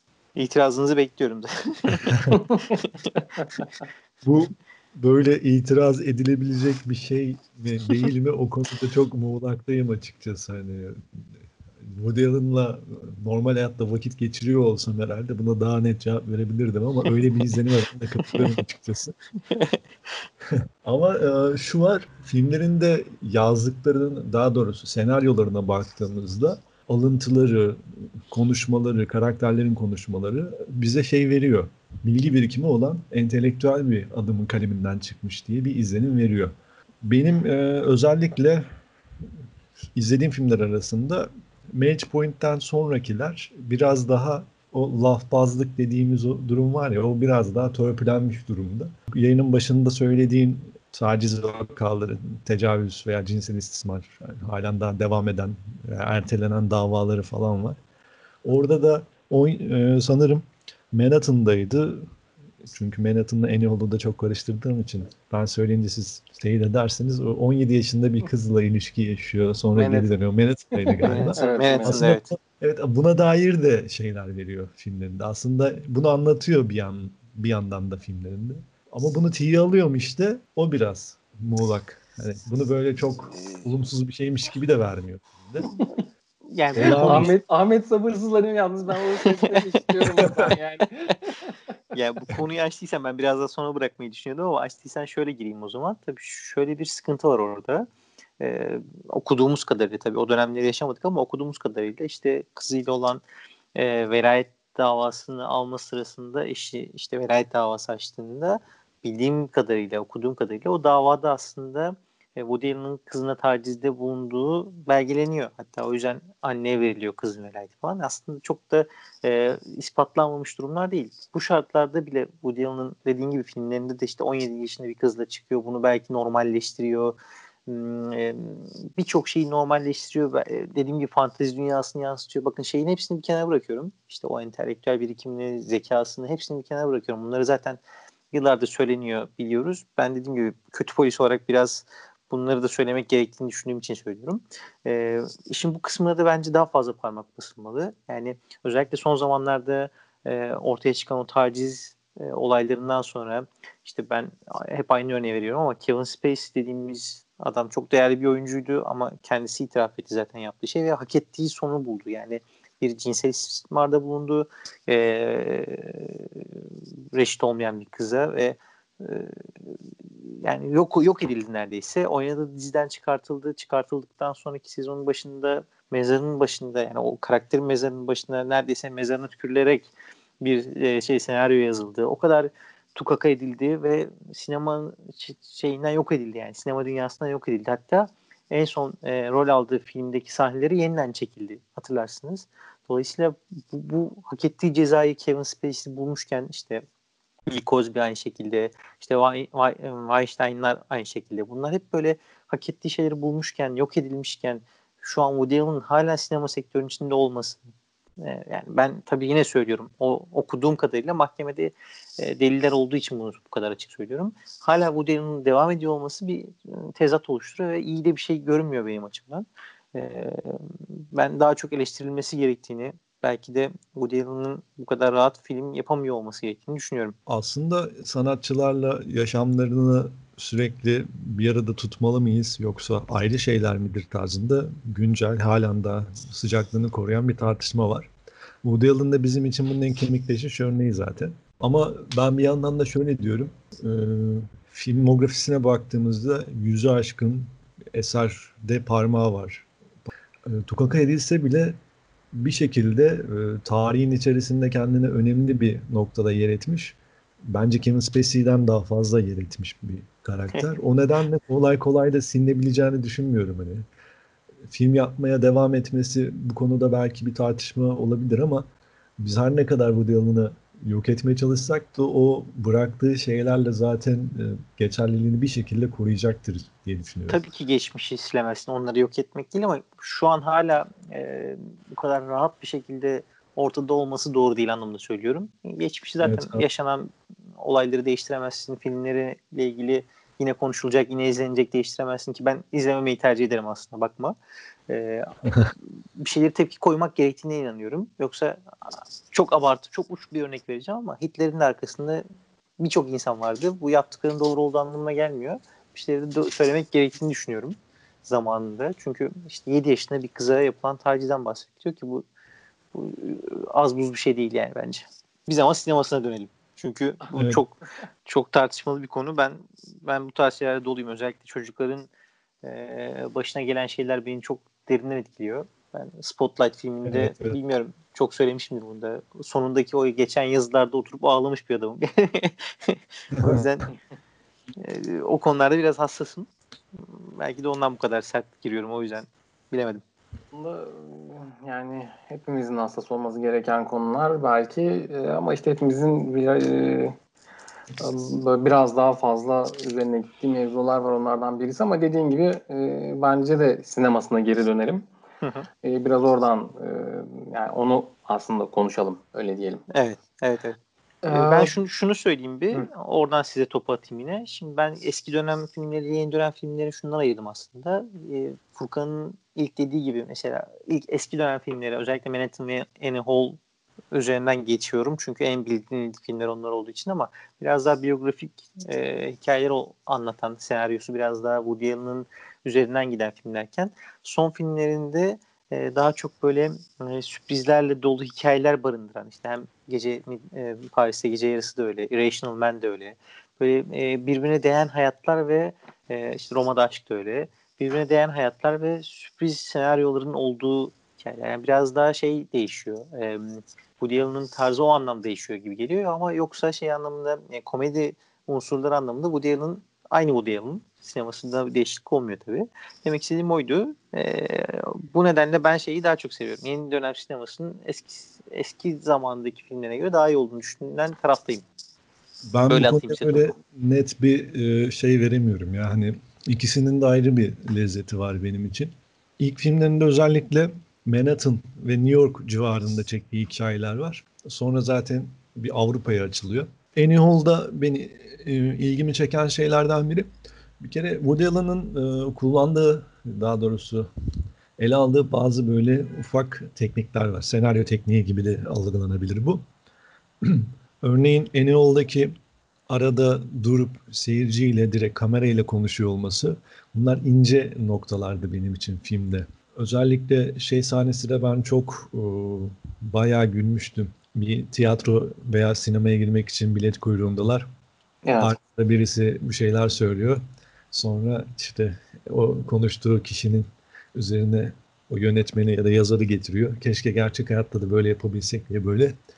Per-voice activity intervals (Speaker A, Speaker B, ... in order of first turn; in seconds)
Speaker A: 0.4-3.2, 19.5-19.8, 71.0-72.3, 86.5-87.4, 91.9-97.9, 98.4-103.2, 103.8-137.8, 138.3-166.4, 167.1-169.4, 170.3-196.8, 197.5-207.6, 208.2-227.2, 277.3-294.4, 294.9-295.3, 296.2-298.6, 299.3-302.2, 302.8-312.2, 312.9-322.1, 322.6-333.9, 334.8-340.0, 355.4-355.7, 359.9-373.6, 374.1-421.6, 422.7-423.5
Speaker B: 2.1-2.4, 4.2-11.3, 11.8-19.1, 20.5-38.7, 40.0-57.8, 58.4-62.1, 62.6-85.7, 86.8-87.3, 90.3-90.5, 227.3-238.1, 238.6-249.7, 250.5-251.8, 252.3-263.9, 264.7-268.7, 269.2-277.4, 286.2-286.6, 317.4-317.6, 327.1-327.6, 333.4-333.6, 422.5-440.3, 440.8-444.1, 444.8-449.6, 450.4-452.3, 452.9-467.7, 468.4-470.4, 470.9-479.2
Speaker C: 69.8-70.1, 70.9-72.0, 86.8-91.5, 340.5-347.1, 348.0-355.1, 355.8-359.8, 361.2-361.8, 468.2-468.6